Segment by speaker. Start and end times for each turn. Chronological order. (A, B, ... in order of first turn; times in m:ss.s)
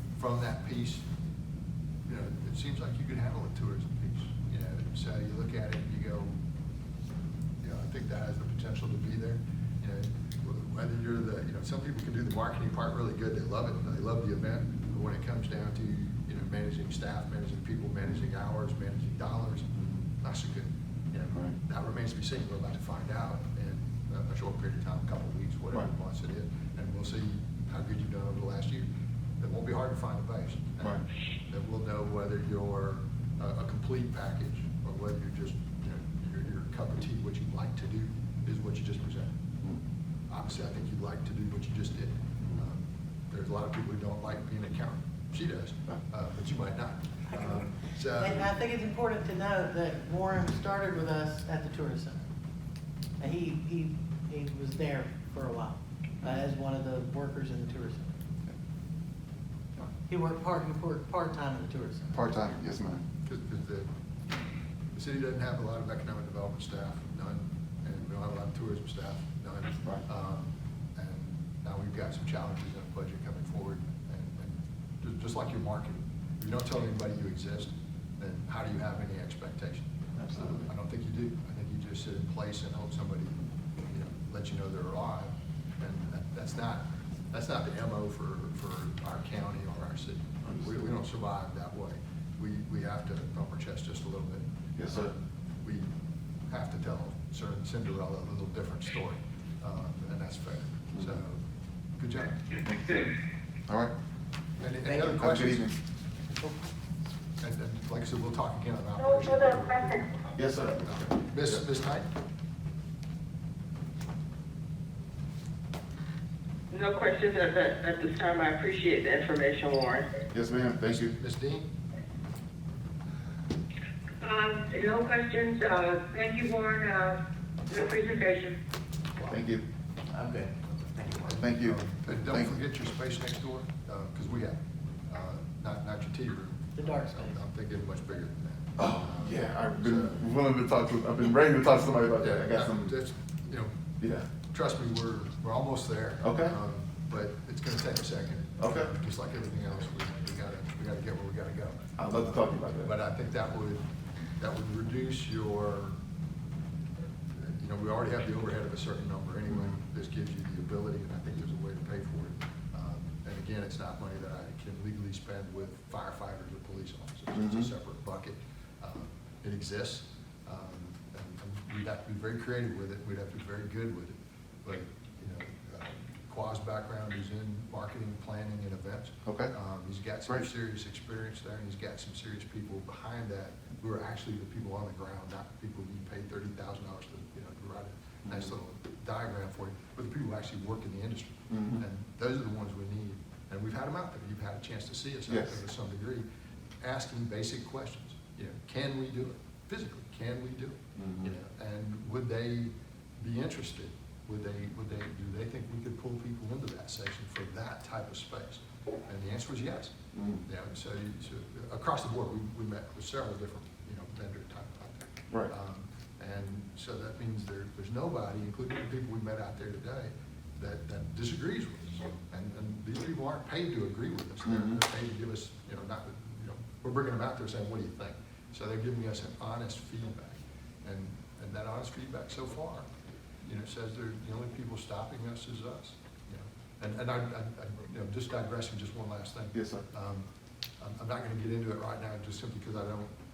0:00.2-0:01.1 A
0:02.1-0:06.4 A
0:07.6-0:19.7 A
0:19.8-0:20.0 B
0:20.2-0:28.9 A
0:29.4-0:39.4 A
0:40.3-0:48.5 A
0:47.3-0:47.6 C
0:48.1-0:52.3 C
0:53.2-0:58.2 C
1:00.1-1:02.4 C
1:02.1-1:03.0 B
1:03.2-1:03.9 A
1:04.9-1:35.9 A
1:20.2-1:20.7 B
1:30.4-1:30.9 B
1:34.8-1:35.1 B
1:36.5-1:41.4 A
1:40.9-1:41.2 B
1:42.0-1:42.6 A
1:42.6-1:43.1 B
1:43.7-1:43.9 B
1:44.6-1:45.7 A
1:45.0-1:45.8 B
1:47.4-1:50.1 A
1:49.2-1:50.0 D
1:50.4-1:51.6 B
1:50.8-1:52.1 A
1:56.7-2:00.1 E
2:00.3-2:01.2 B
2:00.8-2:01.7 A
2:04.2-2:08.6 D
2:09.2-2:09.4 A
2:09.3-2:09.6 B
2:10.1-2:11.3 C
2:11.2-2:20.3 A
2:11.3-2:12.6 B
2:16.8-2:17.4 C
2:18.8-2:23.0 B
2:22.2-2:23.8 A
2:24.0-2:24.3 B
2:24.4-2:36.0 A
2:26.2-2:26.6 B
2:28.6-2:28.9 B
2:32.0-2:32.9 B
2:37.4-3:16.3 A
2:47.3-2:47.7 B
2:59.3-2:59.5 B
3:08.3-3:08.5 B
3:11.5-3:11.8 B
3:15.3-3:15.6 B
3:16.8-3:52.9 A
3:21.0-3:21.3 B
3:30.1-3:30.4 B
3:44.4-3:44.8 B
3:53.4-4:03.1 A
3:59.5-3:59.9 B